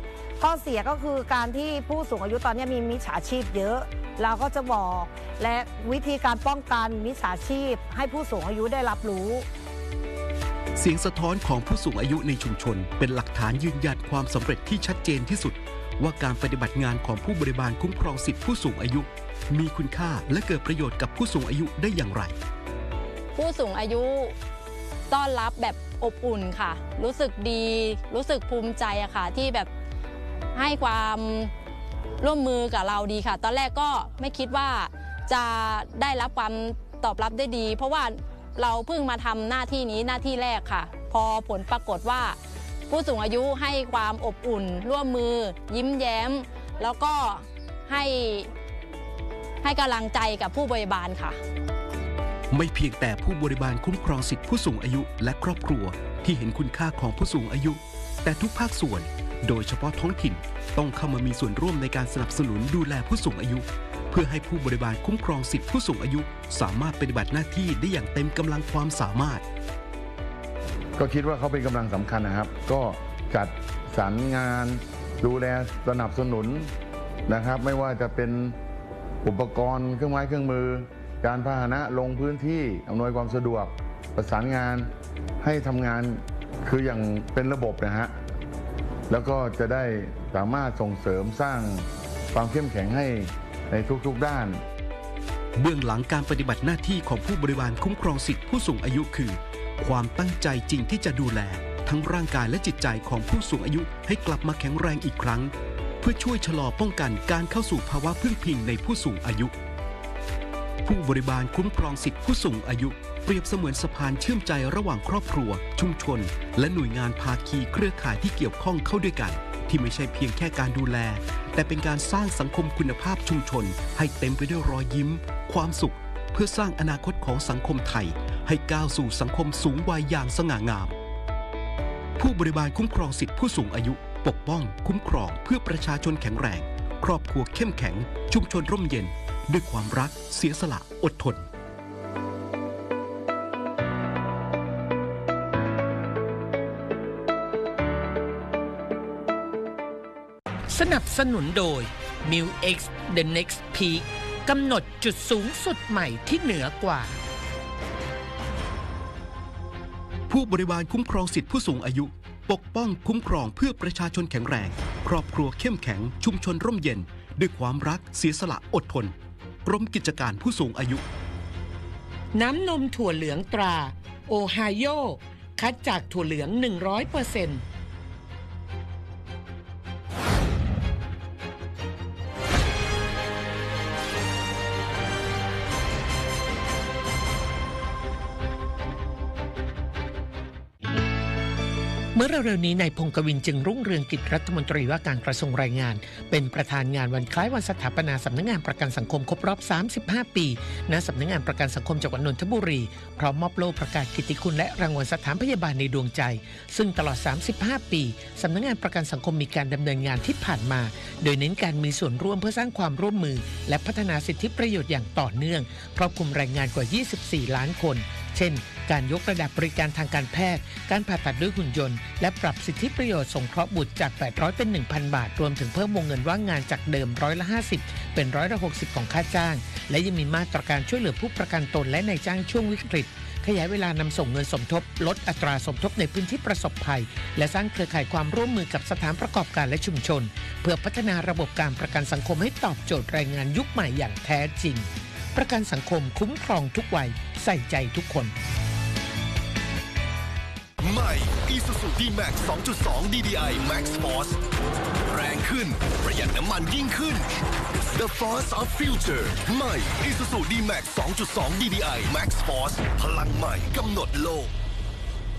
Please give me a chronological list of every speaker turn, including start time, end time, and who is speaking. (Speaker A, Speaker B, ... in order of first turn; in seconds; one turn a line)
Speaker A: 0.4-9.4
Speaker B: 10.8-22.4
Speaker C: 23.4-24.3
Speaker C: 25.1-29.7
Speaker C: 30.5-31.5
Speaker C: 32.2-48.5
Speaker C: 49.6-51.4
Speaker B: 52.5-69.4
Speaker D: 71.0-76.7
Speaker D: 77.3-78.5
Speaker D: 79.2-84.9
Speaker D: 85.4-88.1
Speaker D: 89.1-94.6
Speaker B: 95.6-109.5
Speaker B: 110.8-130.9
Speaker B: 132.2-141.5
Speaker E: 150.7-157.2
Speaker B: 160.3-171.0
Speaker E: 172.3-177.6
Speaker E: 192.1-248.3
Speaker F: 250.8-254.4
Speaker F: 255.1-257.2
Speaker F: 257.9-264.5